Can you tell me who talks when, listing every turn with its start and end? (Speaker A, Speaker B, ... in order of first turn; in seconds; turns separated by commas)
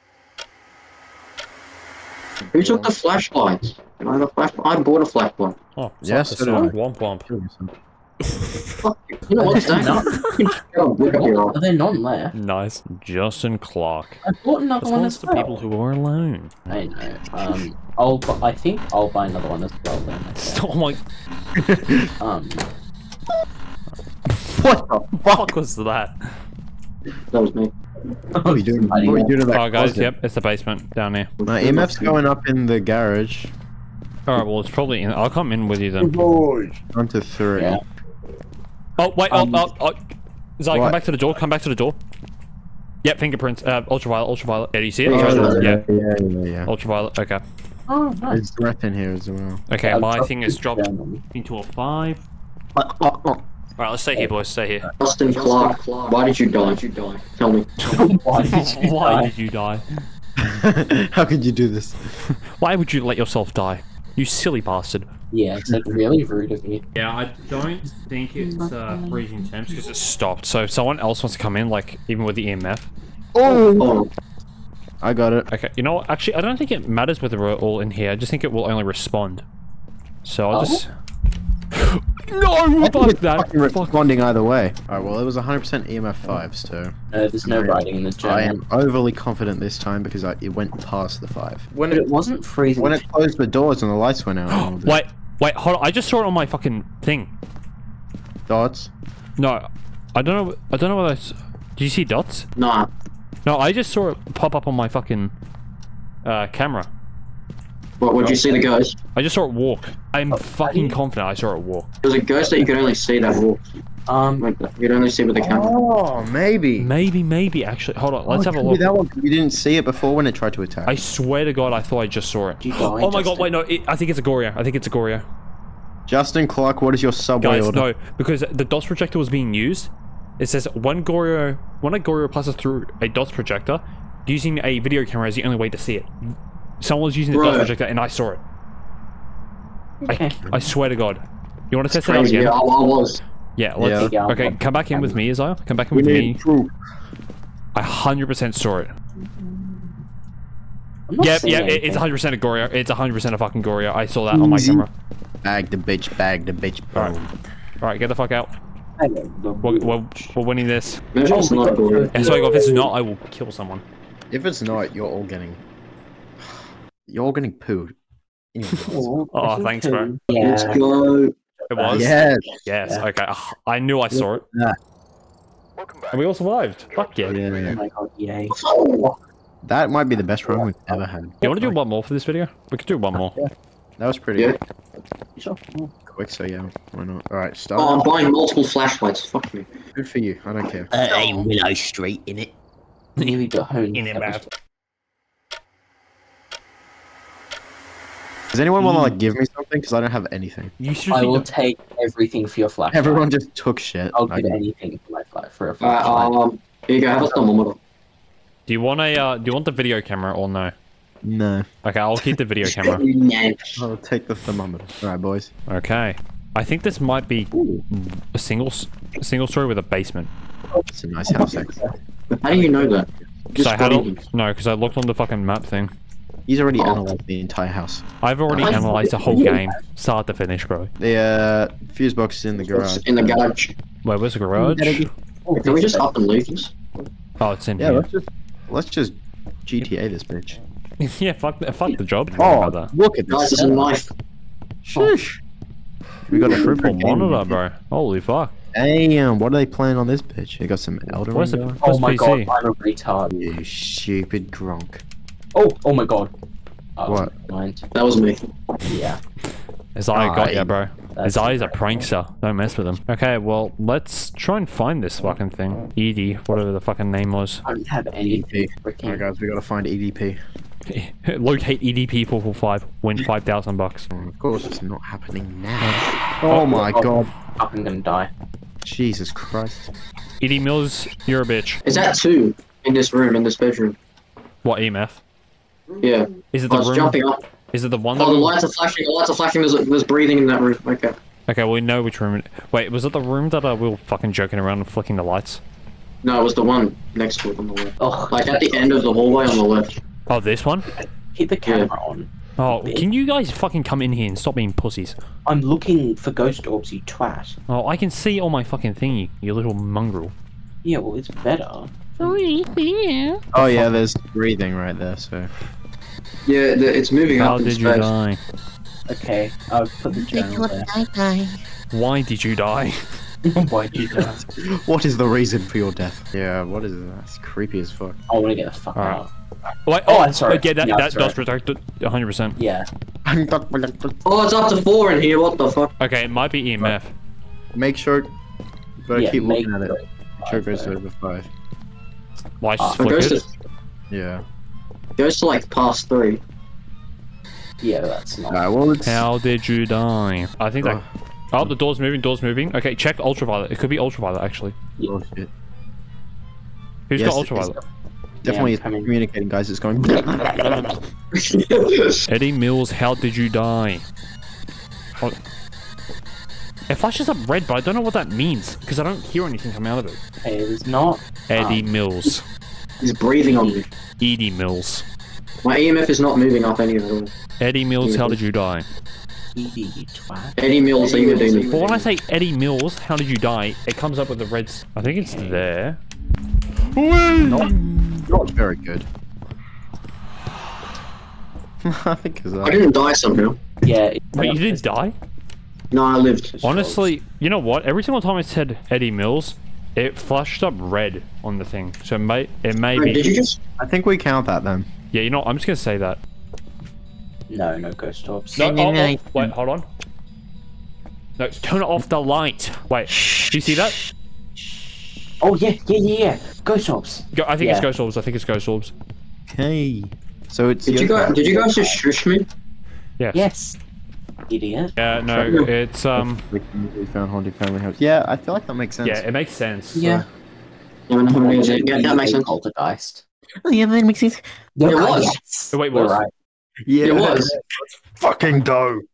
Speaker A: 2.5-5.6, Speaker B: 5.8-7.3, Speaker C: 6.0-6.8, Speaker C: 7.3-7.7, Speaker A: 8.8-11.6, Speaker D: 9.4-10.2, Speaker D: 11.1-12.3, Speaker B: 12.3-14.2, Speaker D: 14.2-15.6, Speaker B: 14.8-16.7, Speaker D: 16.7-20.6, Speaker B: 20.4-21.0, Speaker C: 21.6-22.1, Speaker D: 22.2-22.7, Speaker C: 24.4-25.5, Speaker B: 25.2-26.2, Speaker A: 27.3-27.7, Speaker D: 28.3-29.3, Speaker C: 28.4-30.1, Speaker B: 29.5-31.3, Speaker A: 31.4-32.1, Speaker C: 31.4-33.5, Speaker B: 34.3-36.1, Speaker D: 36.0-36.7, Speaker C: 36.9-37.8, Speaker B: 39.0-42.0, Speaker D: 39.3-39.6, Speaker C: 40.7-41.0, Speaker B: 43.0-45.8, Speaker A: 45.0-45.7, Speaker C: 45.0-46.7, Speaker B: 46.6-47.4, Speaker D: 47.9-48.4, Speaker C: 48.3-49.6, Speaker B: 49.7-52.2, Speaker D: 49.8-51.2, Speaker C: 52.8-53.4, Speaker B: 53.8-54.9, Speaker A: 55.0-57.7, Speaker D: 55.3-55.8, Speaker D: 57.8-59.3, Speaker B: 57.8-60.0, Speaker C: 60.4-62.1, Speaker B: 62.2-65.1, Speaker D: 65.3-66.8, Speaker C: 65.6-66.0, Speaker B: 66.9-72.9, Speaker D: 68.4-69.8, Speaker C: 73.3-74.0, Speaker A: 73.8-74.1, Speaker C: 75.0-75.5, Speaker B: 75.5-79.4, Speaker B: 80.2-80.9, Speaker D: 80.5-80.8, Speaker B: 81.7-84.1, Speaker C: 82.8-92.1, Speaker D: 87.1-88.6, Speaker D: 91.9-93.0, Speaker C: 92.8-95.0, Speaker B: 94.5-97.3, Speaker C: 98.5-98.9, Speaker B: 99.4-102.5, Speaker A: 102.5-102.9, Speaker B: 103.4-105.3, Speaker B: 106.2-106.9, Speaker A: 108.0-109.0, Speaker C: 108.2-108.6, Speaker B: 109.1-111.9, Speaker D: 110.3-111.0, Speaker A: 112.0-113.6, Speaker D: 112.4-112.9, Speaker D: 114.1-114.5, Speaker A: 114.4-115.7, Speaker C: 115.3-116.9, Speaker B: 116.8-118.8, Speaker C: 118.3-121.0, Speaker B: 120.8-125.2, Speaker D: 122.6-123.5, Speaker C: 126.1-127.8, Speaker B: 127.4-138.4, Speaker A: 137.3-137.7, Speaker D: 140.0-140.3, Speaker B: 140.1-142.5, Speaker C: 140.4-140.7, Speaker A: 141.9-143.2, Speaker B: 143.6-146.4, Speaker C: 143.8-144.1, Speaker D: 143.9-145.2, Speaker C: 145.9-146.7, Speaker B: 147.7-148.9, Speaker D: 149.2-150.0, Speaker D: 151.1-152.0, Speaker B: 151.2-154.9, Speaker C: 154.3-154.8, Speaker C: 155.4-157.3, Speaker B: 157.8-158.5, Speaker D: 159.0-160.3, Speaker B: 159.6-161.0, Speaker A: 161.1-162.4, Speaker D: 161.3-162.9, Speaker B: 162.1-163.8, Speaker C: 164.3-165.6, Speaker C: 167.1-167.9, Speaker C: 168.5-169.1, Speaker D: 168.9-170.8, Speaker B: 169.3-170.2, Speaker A: 170.3-171.3, Speaker B: 171.7-174.4, Speaker D: 171.7-172.3, Speaker C: 171.9-172.4, Speaker C: 174.1-174.8, Speaker B: 176.1-177.4, Speaker C: 177.3-177.8, Speaker D: 177.7-178.6, Speaker A: 178.5-179.2, Speaker C: 179.6-181.7, Speaker D: 180.4-180.9, Speaker B: 181.4-183.4, Speaker C: 183.3-184.5, Speaker D: 185.3-185.9, Speaker C: 186.1-188.1, Speaker A: 187.8-189.7, Speaker C: 189.9-190.9, Speaker E: 190.9-192.5, Speaker D: 193.2-194.5, Speaker B: 193.9-194.5, Speaker C: 198.5-200.7, Speaker D: 198.8-199.1, Speaker B: 200.8-201.5, Speaker D: 201.1-203.3, Speaker C: 202.9-204.6, Speaker D: 204.1-206.3, Speaker A: 205.8-207.8, Speaker B: 208.7-210.7, Speaker C: 211.2-211.7, Speaker B: 211.8-213.0, Speaker A: 212.7-213.8, Speaker C: 213.8-215.5, Speaker B: 215.7-220.3, Speaker D: 217.6-217.8, Speaker C: 220.9-221.8, Speaker D: 221.3-221.9, Speaker A: 222.3-224.2, Speaker B: 223.6-225.9, Speaker C: 226.5-229.4, Speaker A: 226.8-227.0, Speaker B: 228.2-230.9, Speaker A: 228.6-228.9, Speaker D: 228.6-229.8, Speaker C: 231.0-233.4, Speaker A: 232.7-233.7, Speaker B: 234.0-235.1, Speaker D: 234.6-236.2, Speaker A: 235.6-236.7, Speaker B: 237.4-238.1, Speaker C: 237.8-239.1, Speaker C: 239.7-240.6, Speaker B: 241.0-242.9, Speaker C: 242.4-243.9, Speaker A: 243.3-244.1, Speaker C: 244.8-245.4, Speaker C: 246.3-247.6, Speaker B: 246.3-248.5, Speaker C: 248.7-251.8, Speaker B: 251.3-252.5, Speaker D: 251.8-253.3, Speaker C: 253.3-255.0, Speaker D: 255.5-256.3, Speaker D: 257.0-257.9, Speaker C: 257.1-257.3, Speaker A: 257.9-258.5, Speaker D: 258.9-259.2, Speaker B: 259.9-267.6, Speaker C: 260.1-260.8, Speaker D: 261.1-262.0, Speaker D: 267.6-269.3, Speaker C: 268.2-270.4, Speaker B: 270.9-274.1, Speaker C: 274.1-277.3, Speaker B: 275.8-276.8, Speaker D: 276.7-278.3, Speaker C: 278.8-279.9, Speaker B: 280.4-281.8, Speaker A: 281.8-284.0, Speaker B: 284.6-285.2, Speaker A: 286.0-287.4, Speaker B: 286.5-287.2, Speaker B: 287.7-288.6, Speaker A: 288.1-291.2, Speaker B: 291.5-295.6, Speaker A: 296.2-300.0, Speaker D: 298.0-299.6, Speaker B: 300.3-300.9, Speaker D: 300.9-303.1, Speaker A: 301.6-301.9, Speaker B: 302.6-305.2, Speaker D: 305.4-307.6, Speaker B: 307.7-310.3, Speaker D: 310.8-312.3, Speaker B: 312.2-314.0, Speaker C: 313.5-315.5, Speaker A: 316.4-318.1, Speaker B: 317.3-318.4, Speaker D: 319.1-320.9, Speaker C: 320.1-321.4, Speaker E: 320.6-321.5, Speaker B: 321.9-323.1, Speaker D: 323.5-324.4, Speaker C: 324.3-328.2, Speaker D: 328.3-329.3, Speaker B: 328.9-329.2, Speaker B: 329.9-332.6, Speaker D: 330.1-331.4, Speaker D: 332.6-332.9, Speaker C: 333.2-334.2, Speaker A: 334.2-335.9, Speaker B: 336.0-337.1, Speaker C: 337.7-338.3, Speaker C: 339.0-341.5, Speaker D: 339.1-340.9, Speaker B: 342.6-343.4, Speaker D: 342.8-343.1, Speaker A: 343.0-343.5, Speaker C: 344.1-344.4, Speaker A: 345.2-346.4, Speaker D: 347.8-348.6, Speaker C: 348.5-349.3, Speaker B: 349.0-351.0, Speaker B: 351.5-354.8, Speaker C: 355.0-355.5, Speaker B: 357.1-357.8, Speaker C: 357.1-357.8, Speaker C: 358.4-361.0, Speaker D: 358.4-359.1, Speaker A: 361.3-362.2, Speaker B: 362.3-364.0, Speaker B: 366.9-370.2, Speaker D: 370.4-372.3, Speaker B: 371.5-372.4, Speaker A: 373.0-373.9, Speaker D: 373.4-373.8, Speaker B: 374.2-375.0, Speaker A: 375.6-377.3, Speaker B: 377.6-378.9, Speaker A: 378.0-378.4, Speaker D: 379.5-381.6, Speaker A: 380.6-381.7, Speaker C: 381.0-382.1, Speaker B: 381.7-386.0, Speaker D: 385.2-385.7, Speaker C: 386.9-389.1, Speaker B: 387.4-387.7, Speaker C: 391.8-392.9, Speaker A: 392.6-393.6, Speaker D: 393.8-394.8, Speaker B: 394.3-395.1, Speaker A: 395.9-396.5, Speaker D: 396.5-397.1, Speaker B: 396.6-403.3, Speaker A: 402.9-403.6, Speaker C: 403.8-404.9, Speaker B: 405.1-406.2, Speaker D: 407.5-408.7, Speaker B: 408.6-409.9, Speaker C: 408.6-409.5, Speaker B: 411.4-414.0, Speaker C: 413.1-413.8, Speaker D: 415.4-417.9, Speaker B: 417.3-418.9, Speaker C: 419.5-421.5, Speaker A: 420.9-422.5, Speaker D: 421.6-422.0, Speaker B: 423.2-423.5, Speaker D: 423.3-423.8, Speaker D: 424.5-424.9, Speaker B: 425.0-426.4, Speaker C: 425.3-425.5, Speaker A: 425.4-425.7, Speaker C: 426.1-429.2, Speaker B: 429.0-430.1, Speaker D: 429.9-430.2, Speaker C: 430.0-430.2, Speaker A: 431.1-432.5, Speaker D: 431.3-433.2, Speaker C: 433.6-434.4, Speaker D: 434.8-436.3, Speaker A: 434.8-435.4, Speaker B: 435.7-436.2, Speaker C: 436.9-439.0, Speaker A: 437.0-437.5